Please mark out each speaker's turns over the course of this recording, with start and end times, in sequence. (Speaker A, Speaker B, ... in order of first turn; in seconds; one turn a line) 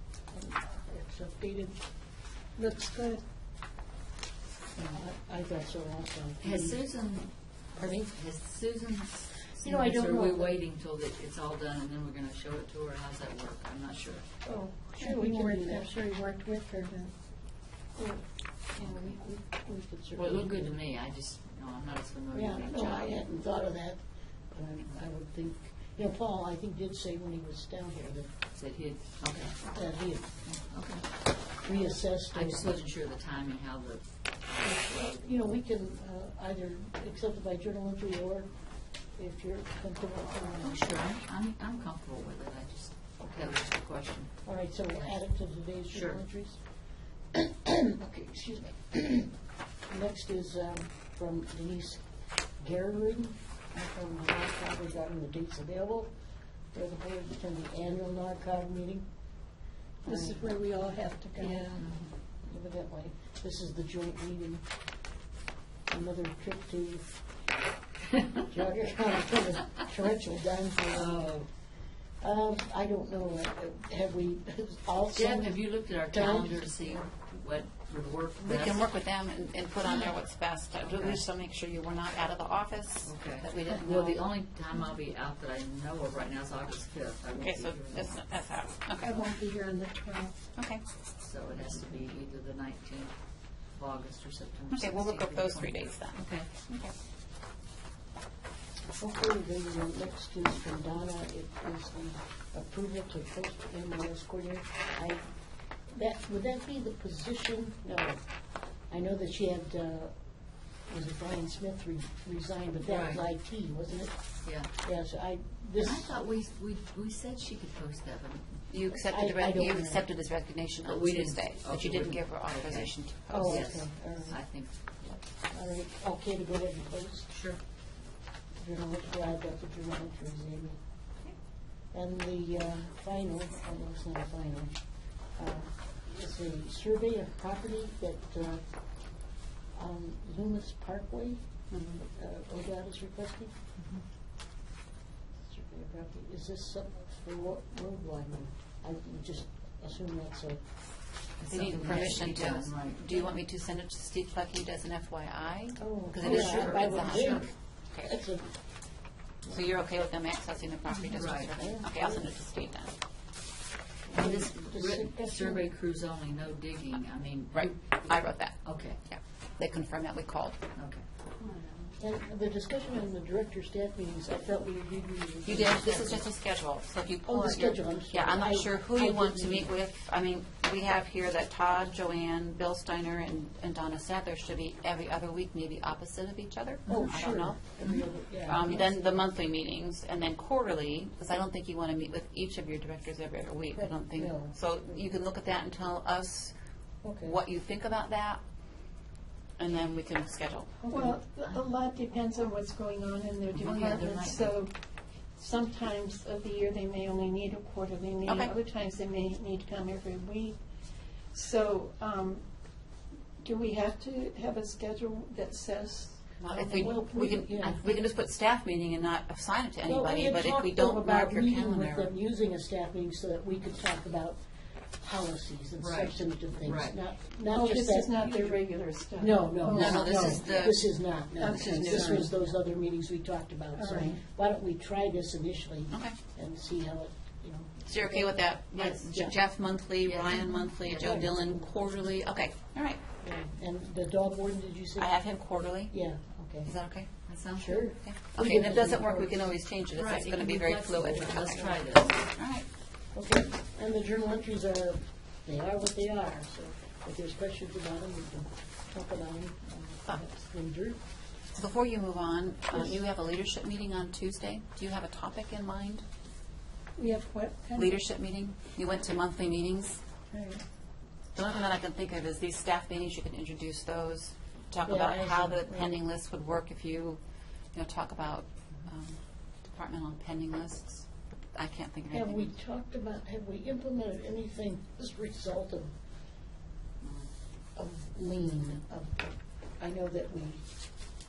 Speaker A: 0.3-1.8
Speaker B: 2.6-3.2
Speaker A: 4.8-6.8
Speaker C: 6.4-14.2
Speaker A: 7.8-8.1
Speaker A: 9.6-10.6
Speaker A: 14.5-15.9
Speaker B: 14.5-17.1
Speaker A: 18.0-20.8
Speaker C: 18.8-19.1
Speaker C: 20.2-23.1
Speaker A: 22.3-28.3
Speaker C: 28.6-29.6
Speaker A: 29.7-30.3
Speaker C: 30.4-31.1
Speaker A: 31.6-32.8
Speaker C: 32.3-34.0
Speaker A: 34.6-38.5
Speaker A: 39.2-41.0
Speaker C: 40.6-44.3
Speaker A: 43.2-43.5
Speaker A: 44.5-46.6
Speaker C: 45.9-46.2
Speaker A: 47.3-49.3
Speaker A: 49.9-52.0
Speaker A: 52.6-56.1
Speaker A: 56.7-59.1
Speaker B: 60.0-61.8
Speaker A: 60.1-60.4
Speaker A: 61.4-61.8
Speaker C: 61.7-62.1
Speaker A: 62.5-64.7
Speaker A: 65.9-67.2
Speaker A: 68.3-71.4
Speaker C: 70.9-71.5
Speaker A: 72.2-77.1
Speaker C: 75.1-78.9
Speaker D: 78.4-84.2
Speaker C: 80.8-81.2
Speaker C: 83.0-88.2
Speaker D: 87.3-89.2
Speaker B: 89.0-90.3
Speaker D: 90.6-90.8
Speaker C: 91.2-93.2
Speaker C: 93.7-96.5
Speaker D: 94.7-96.9
Speaker A: 99.0-105.2
Speaker A: 105.9-108.2
Speaker A: 108.9-110.1
Speaker A: 110.9-114.2
Speaker C: 112.8-113.2
Speaker C: 114.4-114.7
Speaker A: 114.7-116.2
Speaker C: 115.8-118.6
Speaker D: 118.7-123.7
Speaker A: 118.9-120.0
Speaker C: 120.8-125.2
Speaker A: 123.3-124.4
Speaker A: 125.5-127.3
Speaker C: 127.3-127.6
Speaker A: 128.6-130.8
Speaker A: 131.9-134.8
Speaker A: 135.4-138.6
Speaker A: 139.7-141.4
Speaker D: 141.7-142.0
Speaker A: 142.0-143.5
Speaker A: 145.5-150.6
Speaker C: 151.4-153.0
Speaker D: 151.5-158.1
Speaker A: 155.8-157.5
Speaker C: 156.2-157.5
Speaker A: 158.0-158.5
Speaker D: 159.5-162.9
Speaker C: 161.1-161.6
Speaker A: 161.6-162.3
Speaker A: 164.1-165.7
Speaker C: 164.1-169.0
Speaker D: 167.5-170.6
Speaker C: 170.8-171.0
Speaker A: 172.0-176.2
Speaker D: 175.4-196.5
Speaker A: 177.3-179.7
Speaker A: 186.9-189.2
Speaker A: 193.8-194.5
Speaker A: 197.0-197.4
Speaker D: 197.2-198.4
Speaker D: 199.6-200.8
Speaker B: 200.8-204.7
Speaker C: 203.5-204.6
Speaker B: 205.4-210.6
Speaker D: 208.2-208.5
Speaker B: 211.3-212.4
Speaker B: 213.4-217.3
Speaker D: 216.4-222.1
Speaker A: 216.6-217.8
Speaker A: 219.8-224.4
Speaker A: 225.0-238.4
Speaker C: 225.8-227.0
Speaker B: 227.5-230.8
Speaker D: 229.7-230.8
Speaker B: 231.4-232.3
Speaker D: 231.5-232.2
Speaker B: 233.8-234.2
Speaker D: 237.9-243.0
Speaker C: 238.7-239.2
Speaker C: 240.0-241.3
Speaker A: 241.0-241.3
Speaker A: 243.2-245.2
Speaker D: 245.0-245.9
Speaker A: 245.9-246.7
Speaker D: 246.7-247.2
Speaker C: 247.3-247.8
Speaker A: 247.5-249.4
Speaker D: 247.9-251.8
Speaker C: 249.9-252.2
Speaker A: 251.4-251.8
Speaker D: 252.3-252.7
Speaker A: 253.1-261.0
Speaker D: 261.6-266.0
Speaker B: 267.0-268.0
Speaker D: 267.8-270.0
Speaker A: 270.3-270.6
Speaker D: 271.4-277.2
Speaker A: 274.9-275.9
Speaker D: 277.8-282.5
Speaker A: 282.1-285.9
Speaker A: 287.8-290.6